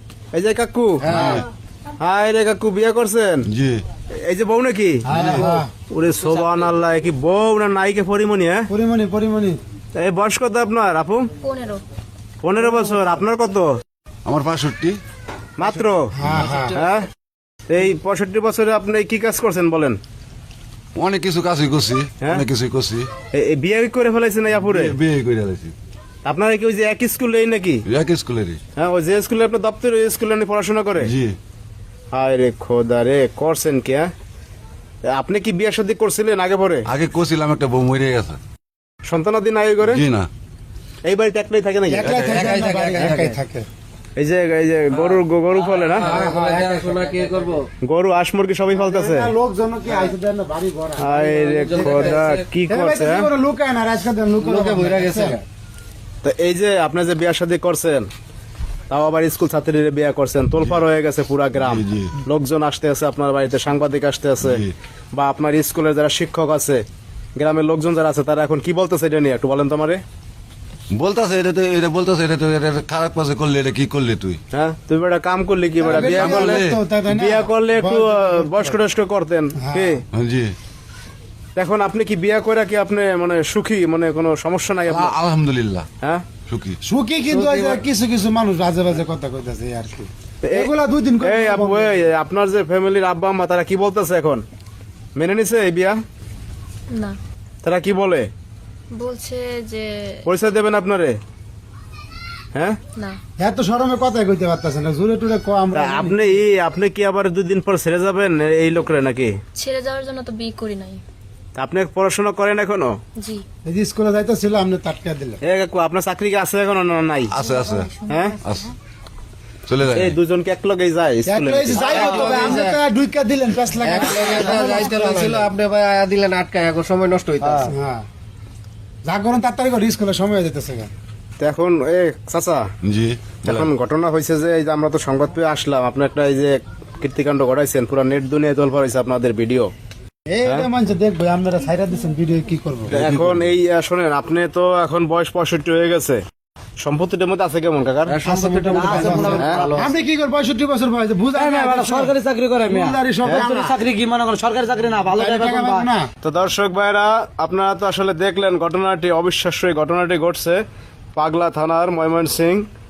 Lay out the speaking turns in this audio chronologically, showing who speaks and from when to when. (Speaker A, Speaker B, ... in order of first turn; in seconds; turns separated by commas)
Speaker A: 0.3-1.1, Speaker B: 1.0-1.4, Speaker C: 1.1-1.4, Speaker D: 1.1-1.4, Speaker A: 2.0-3.5, Speaker D: 3.5-3.8, Speaker A: 4.2-5.1, Speaker B: 5.1-5.5, Speaker C: 5.1-5.7, Speaker D: 5.1-5.5, Speaker A: 5.9-8.7, Speaker C: 8.7-9.6, Speaker A: 10.0-11.3, Speaker E: 11.4-11.8, Speaker A: 12.4-13.7, Speaker D: 14.3-15.0, Speaker A: 15.6-16.1, Speaker C: 16.1-16.8, Speaker A: 16.7-17.1, Speaker A: 17.7-20.0, Speaker D: 20.9-23.1, Speaker A: 23.3-24.9, Speaker D: 24.6-25.7, Speaker A: 26.2-27.8, Speaker D: 27.9-28.6, Speaker A: 28.8-31.1, Speaker D: 31.0-31.4, Speaker A: 32.1-34.1, Speaker A: 35.1-36.9, Speaker D: 36.9-38.4, Speaker A: 39.0-40.0, Speaker D: 39.8-40.3, Speaker A: 41.0-42.2, Speaker C: 41.9-43.7, Speaker D: 42.0-42.5, Speaker B: 42.2-43.3, Speaker A: 44.2-46.2, Speaker B: 45.8-47.7, Speaker C: 46.0-47.1, Speaker A: 47.8-49.3, Speaker C: 48.8-51.2, Speaker A: 51.0-53.3, Speaker B: 51.2-52.5, Speaker C: 52.7-55.4, Speaker B: 54.4-55.4, Speaker A: 56.2-58.1, Speaker A: 58.9-66.8, Speaker D: 61.6-62.1, Speaker D: 64.4-64.7, Speaker A: 67.4-70.0, Speaker D: 70.9-74.4, Speaker A: 74.5-80.0, Speaker C: 75.8-78.8, Speaker D: 75.9-76.8, Speaker C: 79.6-80.0, Speaker D: 80.1-80.5, Speaker A: 81.5-85.1, Speaker D: 84.9-85.9, Speaker D: 86.5-86.8, Speaker C: 86.8-92.0, Speaker B: 87.3-87.8, Speaker A: 90.4-90.7, Speaker A: 91.2-94.4, Speaker A: 95.2-96.0, Speaker E: 96.9-97.2, Speaker A: 97.6-98.3, Speaker E: 98.9-100.2, Speaker A: 100.2-101.2, Speaker C: 103.4-106.4, Speaker A: 105.7-109.4, Speaker E: 109.5-111.0, Speaker A: 111.5-113.0, Speaker E: 113.2-113.4, Speaker C: 113.6-115.4, Speaker A: 115.4-117.3, Speaker D: 117.3-117.9, Speaker E: 117.4-118.2, Speaker A: 118.1-118.4, Speaker D: 118.4-118.7, Speaker D: 119.7-120.2, Speaker A: 119.8-122.6, Speaker C: 121.3-125.5, Speaker B: 121.8-122.8, Speaker B: 123.8-127.7, Speaker C: 127.4-128.0, Speaker C: 129.1-130.9, Speaker A: 131.4-132.7, Speaker D: 132.8-133.7, Speaker A: 133.4-139.7, Speaker C: 140.3-142.9, Speaker D: 142.9-143.5, Speaker A: 142.9-146.2, Speaker A: 146.8-148.2, Speaker B: 148.1-149.9, Speaker C: 148.2-153.8, Speaker F: 148.7-149.7, Speaker A: 149.4-149.7, Speaker F: 151.4-155.9, Speaker C: 155.1-156.1, Speaker A: 156.2-160.6, Speaker A: 161.2-162.7